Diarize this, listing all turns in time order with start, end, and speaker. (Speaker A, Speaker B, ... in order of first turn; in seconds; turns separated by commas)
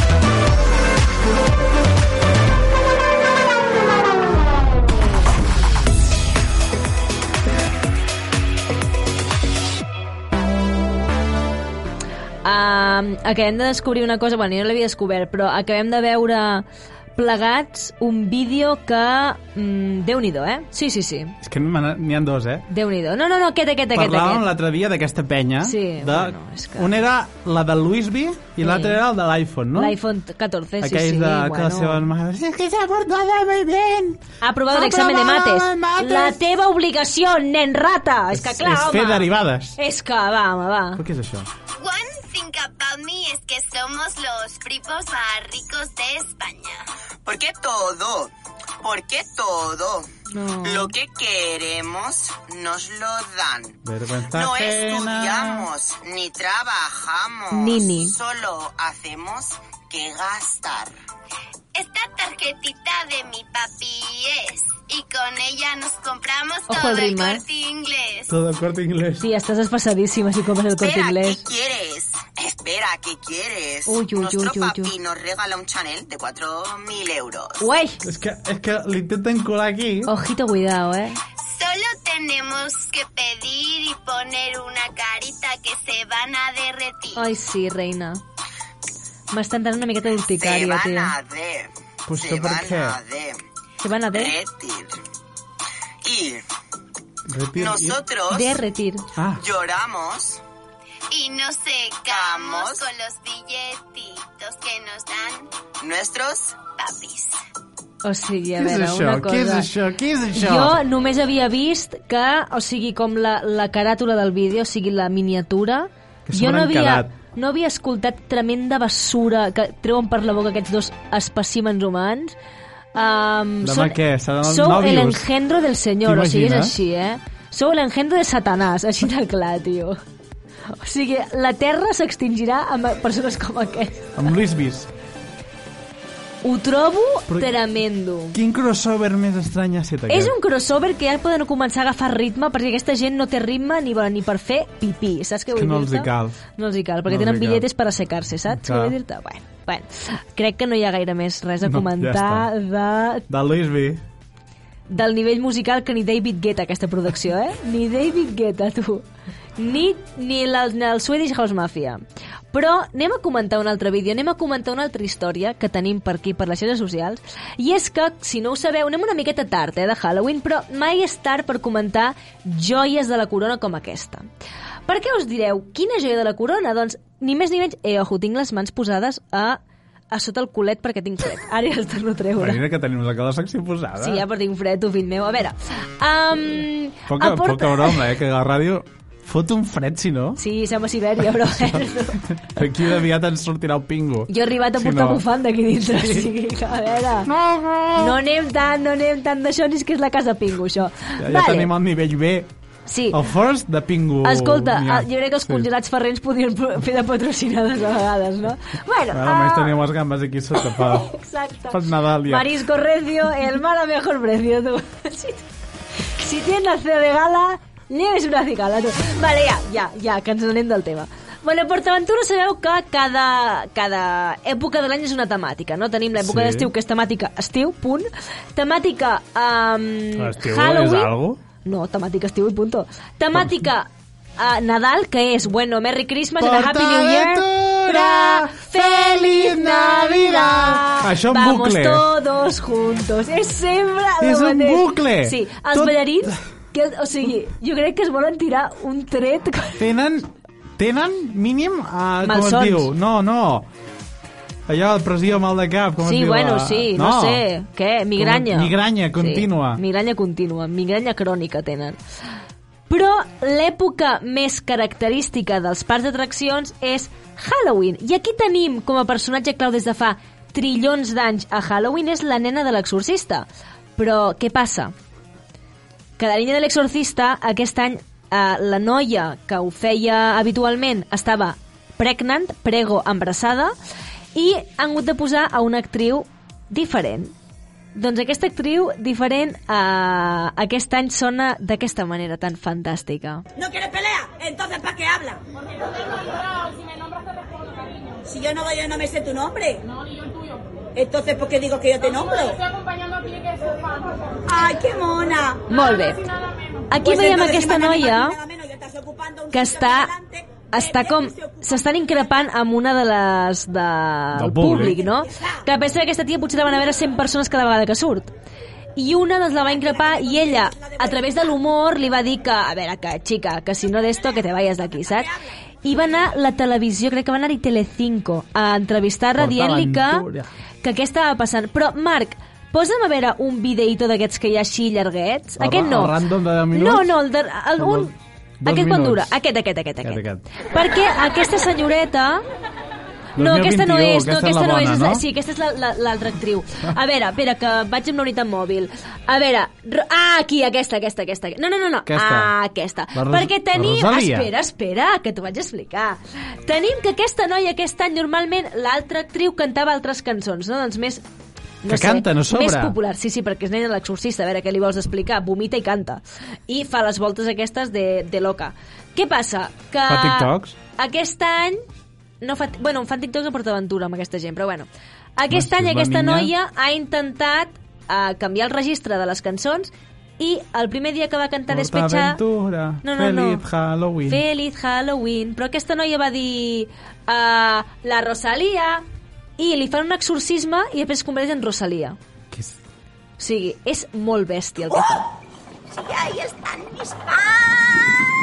Speaker A: 12.4-21.4, Speaker B: 21.4-22.7, Speaker A: 22.7-24.5, Speaker B: 23.9-30.0, Speaker A: 25.6-26.9, Speaker A: 28.6-29.0, Speaker A: 29.8-32.0, Speaker B: 30.8-36.4, Speaker A: 34.4-41.0, Speaker B: 38.3-39.8, Speaker B: 41.0-41.5, Speaker C: 41.8-46.9, Speaker D: 47.3-48.3, Speaker D: 48.8-50.1, Speaker A: 50.3-50.9, Speaker D: 50.6-53.8, Speaker B: 53.8-55.7, Speaker D: 54.3-60.9, Speaker A: 57.5-58.1, Speaker C: 61.8-68.3, Speaker A: 66.7-67.4, Speaker B: 68.3-69.2, Speaker A: 69.2-71.4, Speaker D: 70.8-77.6, Speaker A: 73.9-74.9, Speaker A: 77.6-78.0, Speaker B: 78.0-80.1, Speaker A: 80.1-81.2, Speaker C: 81.4-87.3, Speaker A: 87.2-88.2, Speaker A: 89.3-91.1, Speaker D: 90.3-93.4, Speaker B: 92.1-93.0, Speaker A: 93.8-94.3, Speaker D: 94.1-94.9, Speaker D: 96.0-96.4, Speaker B: 97.3-98.0, Speaker D: 97.6-98.6, Speaker A: 98.3-99.0, Speaker B: 99.2-99.4, Speaker D: 99.4-100.4, Speaker C: 101.1-105.5, Speaker D: 102.1-102.8, Speaker D: 105.8-106.6, Speaker C: 106.8-107.4, Speaker A: 108.0-109.7, Speaker B: 108.5-110.8, Speaker A: 110.3-122.4, Speaker B: 116.3-117.1, Speaker A: 123.0-130.0, Speaker B: 123.6-125.3, Speaker B: 126.0-126.8, Speaker A: 130.7-134.1, Speaker B: 134.2-134.9, Speaker A: 136.4-138.4, Speaker B: 137.3-137.6, Speaker B: 138.3-140.3, Speaker A: 140.1-153.2, Speaker B: 145.5-146.4, Speaker B: 147.1-147.7, Speaker B: 148.5-149.0, Speaker B: 151.6-152.5, Speaker B: 153.3-154.0, Speaker A: 154.9-159.1, Speaker A: 159.6-174.3, Speaker A: 174.9-179.6, Speaker A: 180.1-182.6, Speaker B: 182.4-184.2, Speaker A: 184.0-188.0, Speaker B: 187.1-190.4, Speaker A: 190.4-192.2, Speaker B: 191.5-195.2, Speaker A: 194.3-197.3, Speaker B: 195.9-196.3, Speaker B: 197.2-198.2, Speaker A: 198.0-201.7, Speaker B: 201.2-202.5, Speaker A: 202.9-203.2, Speaker B: 203.1-205.7, Speaker A: 204.2-209.8, Speaker B: 209.1-211.1, Speaker A: 210.7-215.4, Speaker B: 211.7-212.5, Speaker A: 216.1-231.1, Speaker B: 226.2-226.7, Speaker B: 230.2-231.4, Speaker A: 231.6-249.8, Speaker B: 233.3-233.7, Speaker B: 236.4-242.1, Speaker B: 244.2-246.4, Speaker B: 249.8-253.7, Speaker A: 252.2-252.9, Speaker B: 254.7-257.5, Speaker A: 256.0-262.0, Speaker B: 258.2-259.8, Speaker A: 262.9-274.9, Speaker A: 276.2-283.7, Speaker A: 284.4-287.3, Speaker A: 287.9-293.4, Speaker E: 293.6-295.4, Speaker E: 298.3-299.9, Speaker E: 301.0-302.6, Speaker E: 304.5-305.6, Speaker A: 305.7-306.2, Speaker A: 306.9-308.4, Speaker E: 307.0-312.1, Speaker A: 309.5-310.1, Speaker A: 310.7-318.3, Speaker B: 314.4-315.0, Speaker E: 314.9-315.6, Speaker A: 319.0-325.3, Speaker E: 319.7-321.2, Speaker E: 325.1-325.4, Speaker A: 325.8-330.3, Speaker B: 329.4-330.5, Speaker A: 330.8-336.2, Speaker B: 335.6-337.1, Speaker A: 336.7-338.1, Speaker B: 337.8-339.3, Speaker A: 338.6-342.4, Speaker B: 340.0-340.4, Speaker B: 343.4-345.3, Speaker A: 343.4-361.2, Speaker B: 352.1-352.5, Speaker B: 353.1-354.5, Speaker A: 361.8-371.8, Speaker B: 361.9-362.9, Speaker B: 370.1-370.8, Speaker A: 372.4-382.4, Speaker B: 375.5-376.5, Speaker B: 381.7-384.4, Speaker A: 383.0-383.6, Speaker A: 384.3-389.0, Speaker A: 389.6-392.2, Speaker B: 392.5-392.8, Speaker A: 393.4-395.2, Speaker E: 395.9-398.2